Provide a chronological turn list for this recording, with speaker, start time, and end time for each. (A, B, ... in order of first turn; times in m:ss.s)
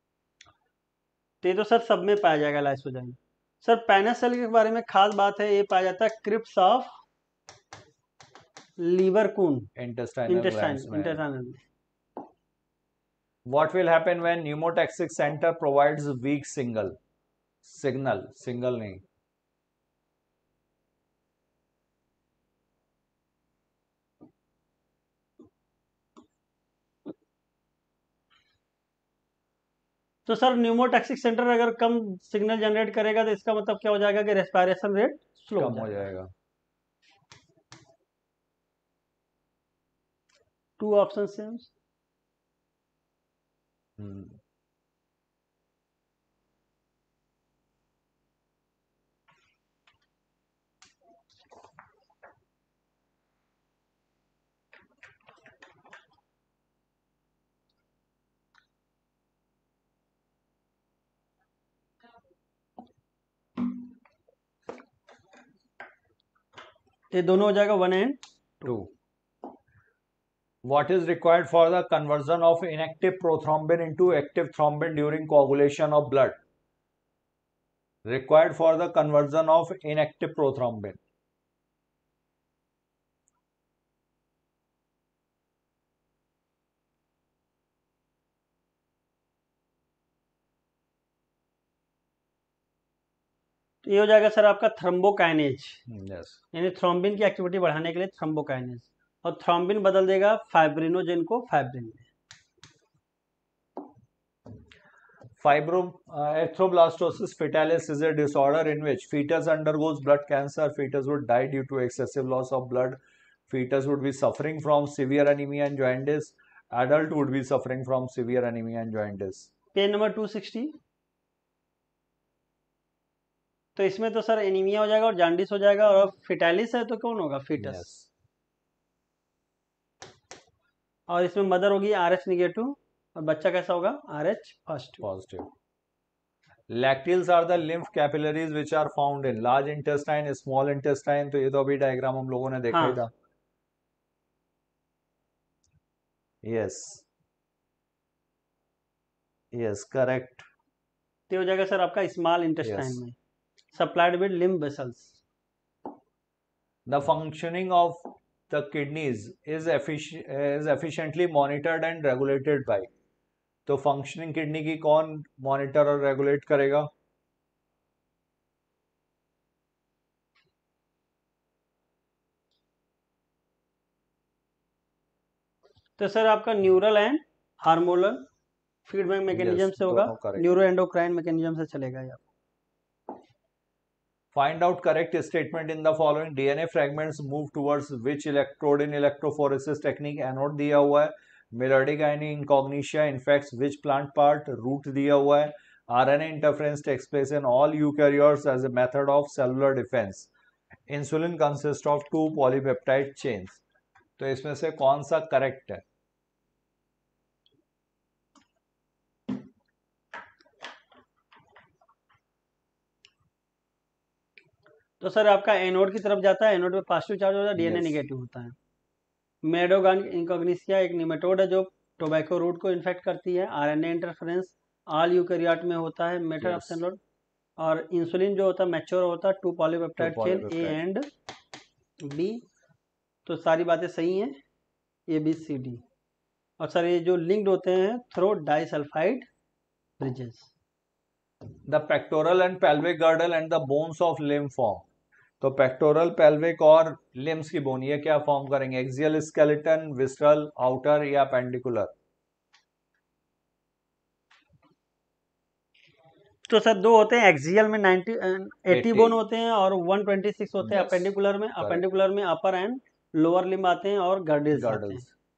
0:01.4-0:06.9 A
0:08.8-0:09.7 A
0:09.8-0:11.2 B
0:10.3-0:11.6 A
0:13.4-0:17.0 B
0:17.6-0:19.0 B
0:30.3-0:36.1 A
0:35.6-0:36.3 B
0:40.8-0:41.7 A
0:44.0-0:44.4 B
1:07.1-1:08.2 A
1:08.6-1:08.9 B
1:10.6-1:16.4 B
1:18.0-1:21.0 B
1:33.8-1:35.8 A
1:35.9-1:36.4 B
1:36.5-1:42.0 A
1:45.4-1:59.5 B
1:59.7-2:00.8 A
2:03.8-2:07.8 A
2:07.6-2:08.1 B
2:11.1-2:15.0 A
2:15.0-2:15.5 B
2:16.7-2:23.1 B
2:22.7-2:23.0 A
2:26.4-2:27.0 B
2:29.5-2:30.4 B
2:31.3-2:33.1 A
2:32.6-2:33.0 B
2:33.7-2:35.2 A
2:36.8-2:42.9 B
2:43.6-2:46.9 B
2:56.0-2:58.2 A
2:58.8-3:02.2 A
2:59.3-3:00.6 B
3:04.3-3:20.3 B
3:20.9-3:23.6 B
3:24.2-3:25.8 B
3:35.0-3:38.5 A
3:37.6-3:38.0 B
3:39.4-3:47.0 A
3:46.4-3:46.8 B
3:47.6-3:51.1 A
3:50.0-3:50.8 B
3:52.0-3:52.4 A
3:53.2-3:54.4 A
3:55.1-3:55.8 A
3:56.6-3:59.3 A
4:00.0-4:00.5 A
4:01.7-4:04.8 B
4:05.4-4:11.9 B
4:16.5-4:25.0 A
4:18.7-4:19.2 B
4:20.6-4:21.8 B
4:24.5-4:25.1 B